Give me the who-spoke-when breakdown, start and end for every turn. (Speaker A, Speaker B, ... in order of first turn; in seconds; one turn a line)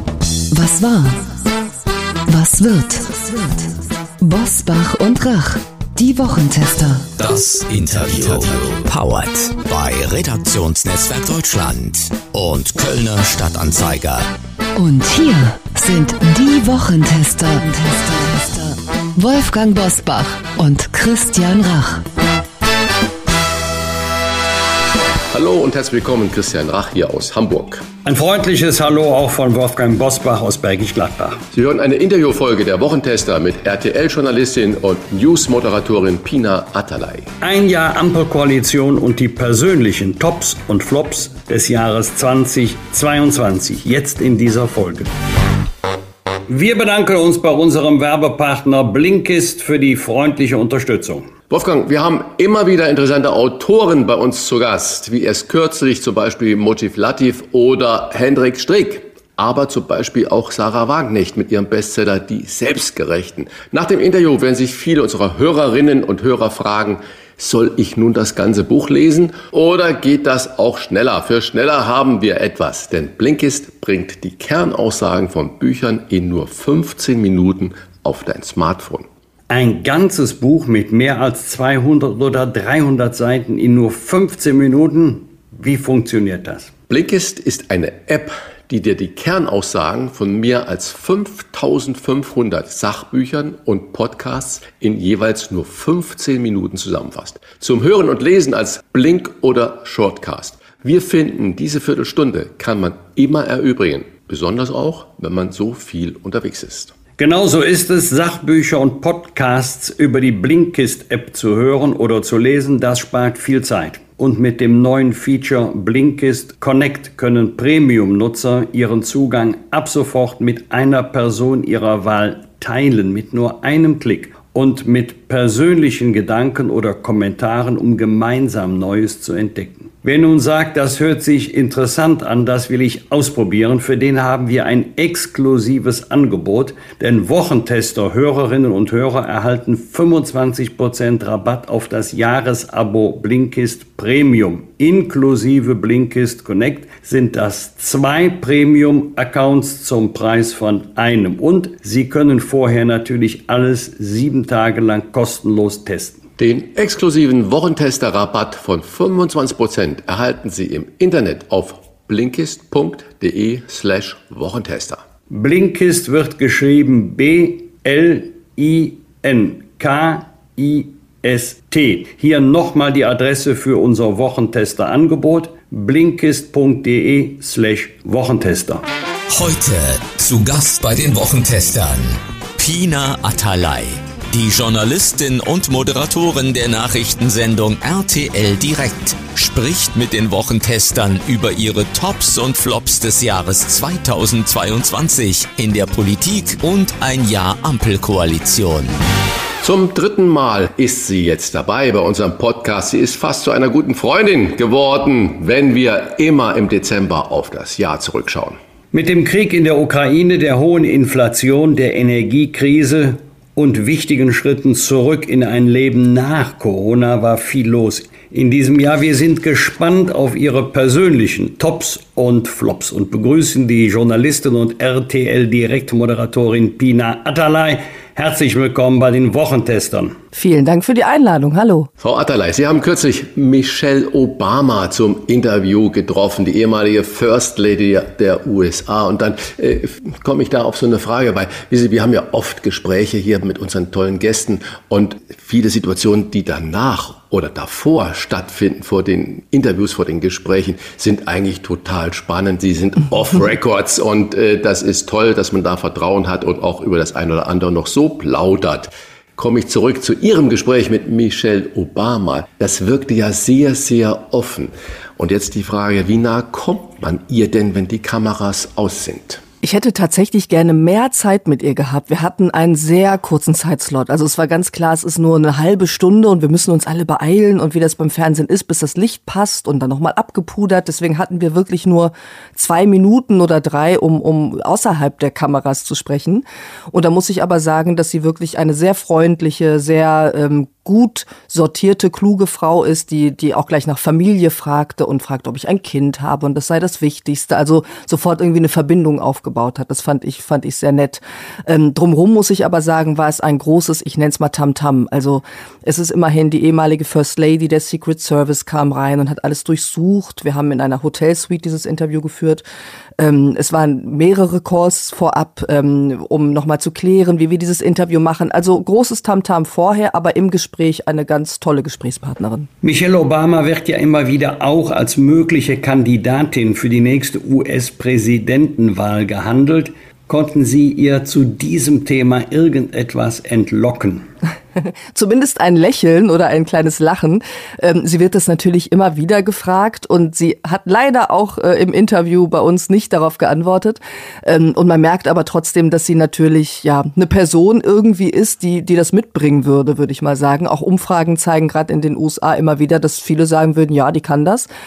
Speaker A: 0.5-1.2
Speaker A: 2.3-7.1
Speaker B: 7.2-14.3
Speaker A: 14.8-22.0
Speaker C: 25.3-27.8
Speaker D: 28.0-31.4
Speaker C: 31.5-37.3
Speaker D: 37.4-45.1
Speaker D: 46.5-51.3
Speaker C: 51.5-79.1
Speaker D: 79.5-86.7
Speaker C: 86.9-106.9
Speaker D: 107.2-156.2
Speaker C: 156.4-165.0
Speaker D: 165.3-178.8
Speaker B: 179.3-198.9
Speaker C: 199.6-208.6
Speaker D: 208.9-230.1
Speaker E: 230.3-231.9
Speaker C: 232.0-269.4
Speaker E: 269.6-312.6
Speaker E: 313.2-322.7
Speaker D: 322.8-334.2
Speaker E: 335.1-354.7